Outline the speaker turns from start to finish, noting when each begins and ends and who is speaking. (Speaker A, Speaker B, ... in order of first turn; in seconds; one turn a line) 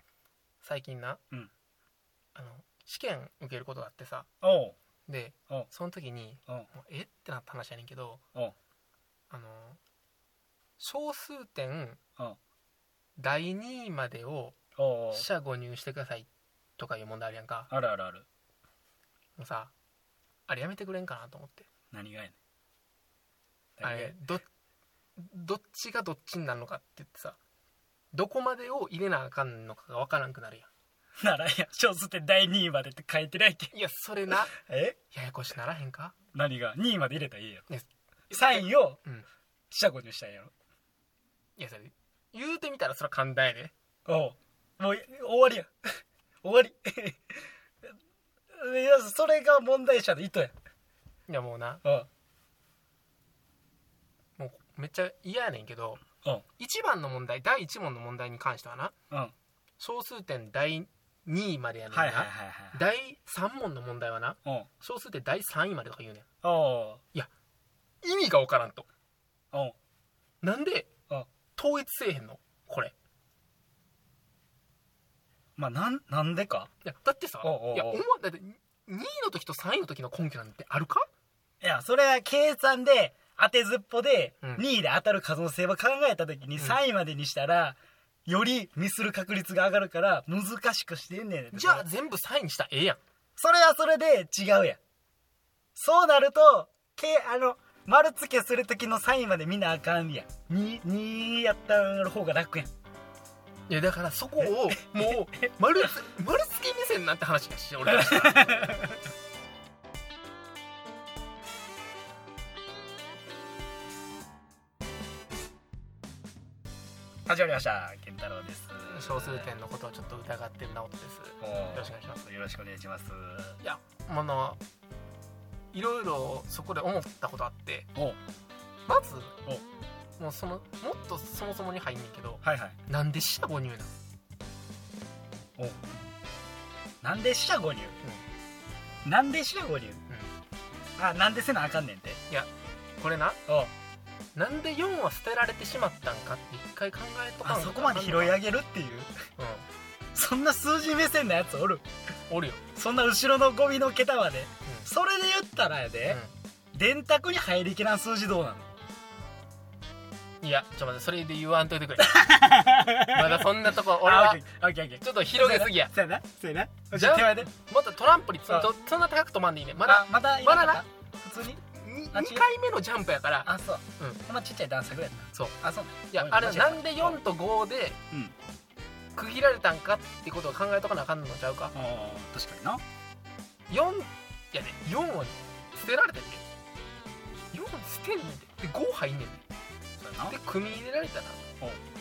Speaker A: 0.6-1.2
Speaker A: 2.3-4.3
Speaker B: 4.4-4.8
Speaker A: 5.1-8.2
Speaker A: 9.3-9.8
Speaker A: 10.8-12.0
Speaker A: 13.2-14.6
Speaker B: 14.8-15.2
Speaker A: 15.1-17.7
Speaker B: 17.7-18.2
Speaker A: 19.4-19.7
Speaker A: 20.5-21.6
Speaker B: 21.9-22.3
Speaker B: 23.8-24.1
Speaker A: 23.8-24.4
Speaker A: 25.2-27.4
Speaker A: 28.1-30.7
Speaker B: 31.2-33.7
Speaker A: 33.7-34.5
Speaker B: 34.4-35.0
Speaker A: 35.1-36.1
Speaker B: 36.3-37.6
Speaker A: 37.7-39.2
Speaker B: 38.3-39.0
Speaker B: 39.7-40.5
Speaker A: 41.6-43.7
Speaker B: 44.0-45.7
Speaker B: 46.4-47.4
Speaker B: 48.5-50.5
Speaker A: 51.3-51.8
Speaker A: 54.4-56.0
Speaker A: 56.6-58.9
Speaker A: 59.8-66.2
Speaker B: 61.9-62.8
Speaker B: 66.4-67.0
Speaker A: 68.0-68.9
Speaker A: 70.4-70.9
Speaker A: 71.5-72.9
Speaker B: 75.6-76.7
Speaker A: 76.8-81.1
Speaker B: 77.4-78.0
Speaker B: 81.6-91.8
Speaker A: 91.5-93.0
Speaker B: 93.4-94.8
Speaker B: 95.8-102.7
Speaker A: 103.7-108.7
Speaker B: 104.4-105.1
Speaker B: 107.9-109.0
Speaker B: 117.2-119.5
Speaker A: 118.9-122.2
Speaker B: 121.4-123.6
Speaker A: 123.6-124.6
Speaker A: 125.7-127.9
Speaker A: 128.9-129.3
Speaker A: 130.2-133.9
Speaker B: 132.4-132.8
Speaker B: 135.6-135.9
Speaker B: 137.0-137.9
Speaker B: 139.0-140.0
Speaker B: 141.0-142.2
Speaker A: 142.3-143.4
Speaker B: 143.5-143.7
Speaker A: 144.3-148.4
Speaker B: 147.4-149.1
Speaker A: 149.4-149.6
Speaker B: 150.1-151.8
Speaker A: 152.3-152.6
Speaker B: 152.7-156.2
Speaker A: 156.1-156.3
Speaker B: 156.7-158.7
Speaker A: 160.4-162.2
Speaker B: 162.0-167.5
Speaker A: 163.1-164.4
Speaker A: 165.0-165.9
Speaker A: 166.9-170.8
Speaker B: 169.8-172.4
Speaker A: 171.8-174.2
Speaker B: 173.4-177.2
Speaker A: 176.1-178.0
Speaker A: 179.2-181.7
Speaker B: 181.7-182.8
Speaker A: 183.7-186.4
Speaker A: 187.5-189.4
Speaker B: 190.0-190.3
Speaker A: 190.3-191.4